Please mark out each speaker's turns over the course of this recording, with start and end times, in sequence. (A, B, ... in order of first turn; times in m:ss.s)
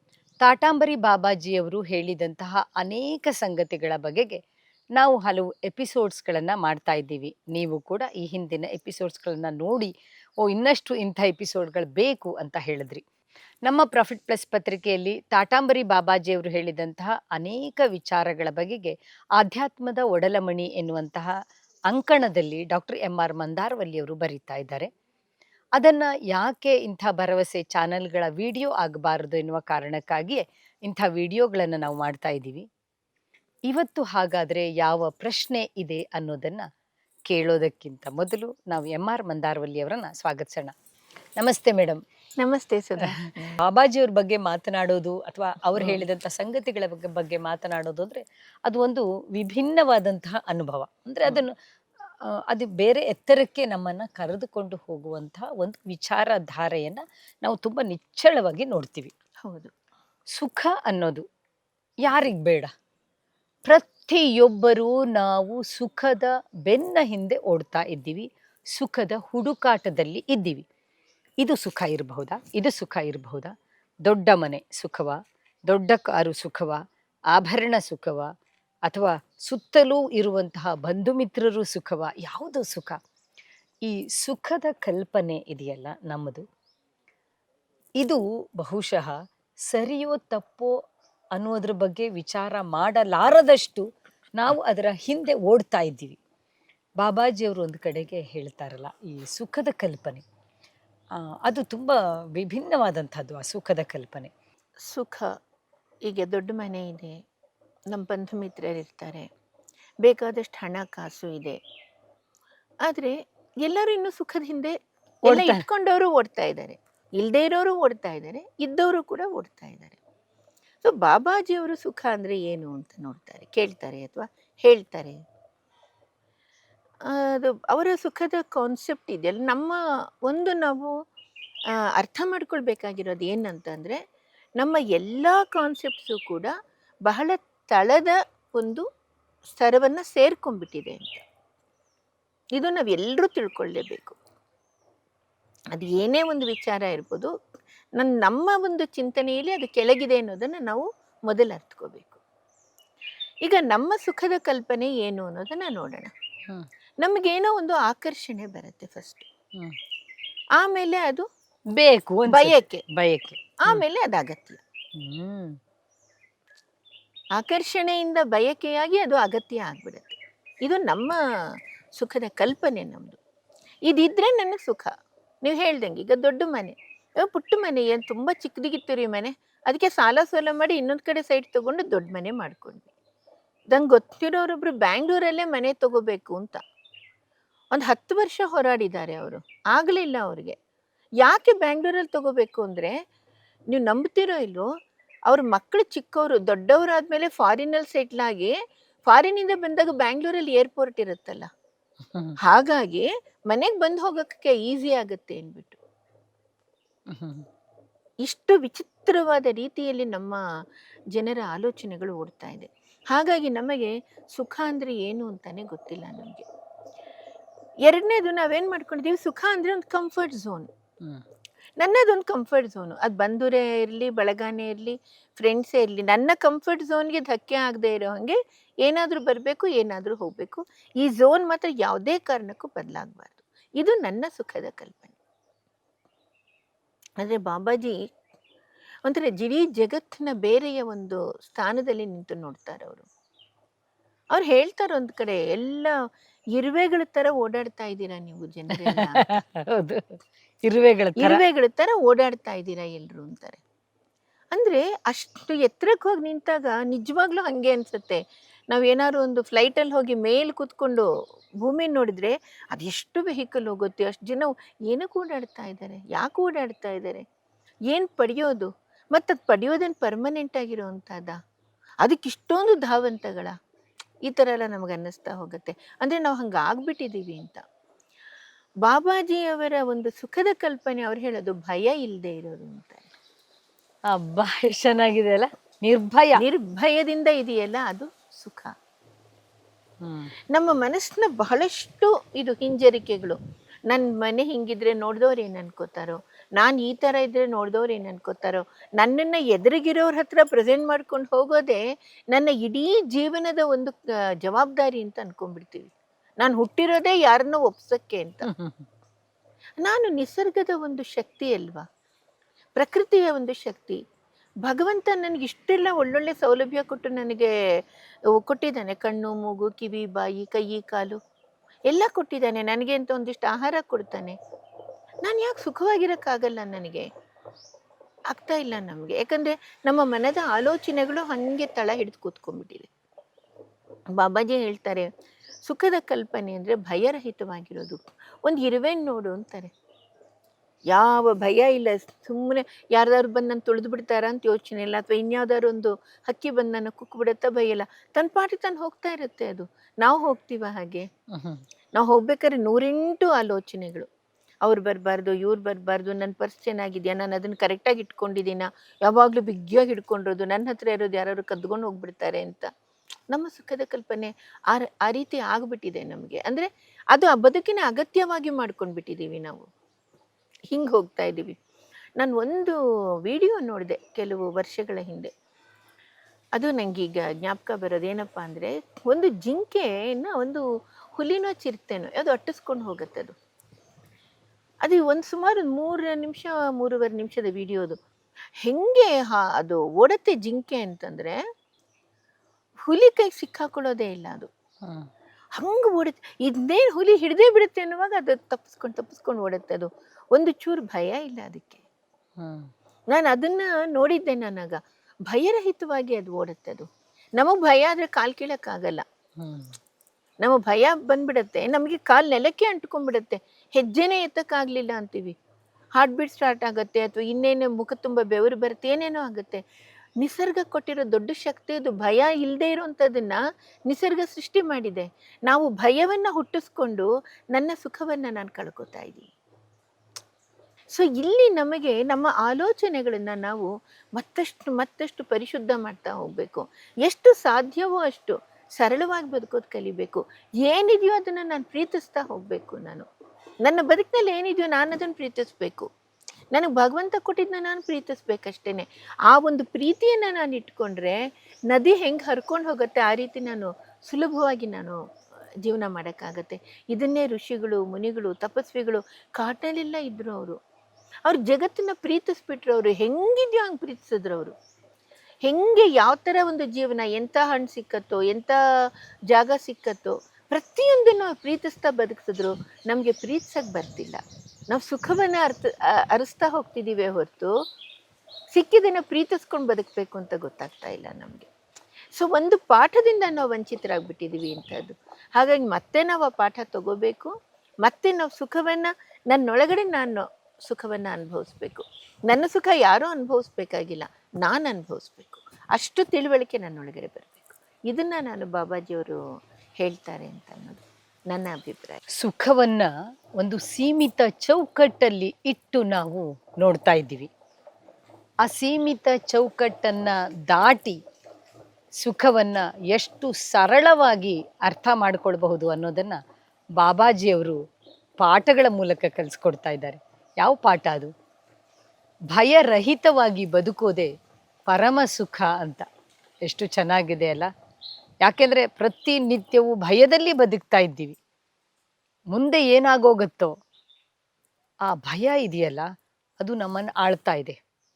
0:00.4-0:04.4 A
0:05.0-0:09.9 A
0:10.4-0:13.0 A
0:13.7-0:21.3 A
0:21.9-0:24.9 A
0:25.8-0:32.7 A
0:33.7-0:36.7 A
0:37.3-0:40.7 A
0:41.4-0:42.0 A
0:42.4-0:43.6 B
0:43.6-0:51.5 A
0:52.2-0:59.1 A
0:59.4-0:59.7 B
1:00.4-1:01.2 A
1:02.0-1:02.7 A
1:03.6-1:10.6 A
1:11.4-1:13.5 A
1:14.1-1:15.2 A
1:15.7-1:16.8 A
1:17.4-1:18.3 A
1:18.9-1:23.0 A
1:23.8-1:26.4 A
1:28.0-1:29.2 A
1:29.7-1:30.7 A
1:31.4-1:33.8 A
1:34.4-1:36.2 A
1:37.0-1:40.2 A
1:41.5-1:44.3 A
1:44.9-1:45.3 B
1:46.0-1:47.2 B
1:47.9-1:49.3 B
1:50.0-1:51.6 B
1:52.9-2:00.0 B
1:55.3-1:55.6 A
2:00.8-2:05.2 B
2:07.1-2:10.9 B
2:12.0-2:14.0 B
2:14.6-2:16.5 B
2:17.1-2:18.8 B
2:19.5-2:21.2 B
2:22.6-2:24.2 B
2:25.7-2:27.3 B
2:28.0-2:32.2 B
2:33.4-2:36.1 B
2:37.0-2:39.3 B
2:40.6-2:41.2 B
2:41.8-2:43.8 A
2:42.3-2:42.8 B
2:43.6-2:44.6 B
2:45.0-2:45.6 A
2:47.4-2:51.2 B
2:52.0-2:53.2 B
2:53.9-2:54.9 B
2:55.4-3:02.9 B
3:03.7-3:06.6 B
3:07.7-3:10.6 B
3:11.2-3:13.0 B
3:13.7-3:14.7 B
3:15.3-3:18.6 B
3:19.1-3:21.5 B
3:22.4-3:25.8 B
3:27.1-3:27.5 A
3:28.2-3:30.4 B
3:31.1-3:36.5 B
3:37.8-3:40.7 B
3:41.8-3:55.2 B
3:57.2-3:58.0 B
3:59.0-4:03.1 B
4:04.3-4:06.0 B
4:06.6-4:09.4 B
4:08.9-4:11.4 A
4:11.2-4:13.6 B
4:14.5-4:21.1 B
4:21.6-4:27.2 B
4:27.9-4:31.4 B
4:32.0-4:33.6 B
4:34.3-4:37.6 B
4:38.8-4:43.1 B
4:44.1-4:46.4 A
4:46.4-4:48.7 B
4:50.0-4:50.3 A
4:50.5-4:53.4 B
4:53.9-5:08.5 B
5:08.4-5:08.9 A
5:09.8-5:11.8 B
5:12.8-5:14.0 B
5:14.6-5:17.5 B
5:18.3-5:21.2 B
5:21.9-5:24.4 B
5:25.2-5:27.1 B
5:28.3-5:32.9 B
5:34.2-5:35.1 B
5:35.6-5:39.7 B
5:40.9-5:51.1 B
5:51.3-5:51.6 A
5:52.0-5:54.1 B
5:54.6-6:02.7 B
6:03.3-6:09.7 B
6:10.7-6:11.6 B
6:12.2-6:15.3 B
6:16.6-6:20.6 B
6:21.2-6:23.3 B
6:24.8-6:28.0 B
6:28.6-6:31.4 B
6:32.9-6:34.5 B
6:35.6-6:41.8 B
6:42.4-6:42.7 A
6:43.1-6:49.0 B
6:49.4-6:49.8 A
6:50.4-6:55.4 B
6:56.0-6:59.6 B
7:00.2-7:09.3 B
7:10.9-7:23.1 B
7:23.6-7:25.9 B
7:26.5-7:35.0 B
7:35.6-7:40.6 B
7:41.3-7:44.6 B
7:45.4-7:57.6 B
7:58.5-8:01.5 B
8:02.1-8:07.3 B
8:07.8-8:19.2 B
8:19.8-8:22.0 B
8:22.2-8:22.9 A
8:23.4-8:27.3 A
8:28.4-8:31.0 A
8:32.0-8:36.2 A
8:36.8-8:37.6 A
8:38.2-8:41.1 A
8:42.3-8:44.1 A
8:44.7-8:45.9 A
8:46.5-8:47.5 A
8:48.2-8:51.2 A
8:52.3-8:53.6 A
8:54.9-8:55.9 A
8:56.4-8:57.6 A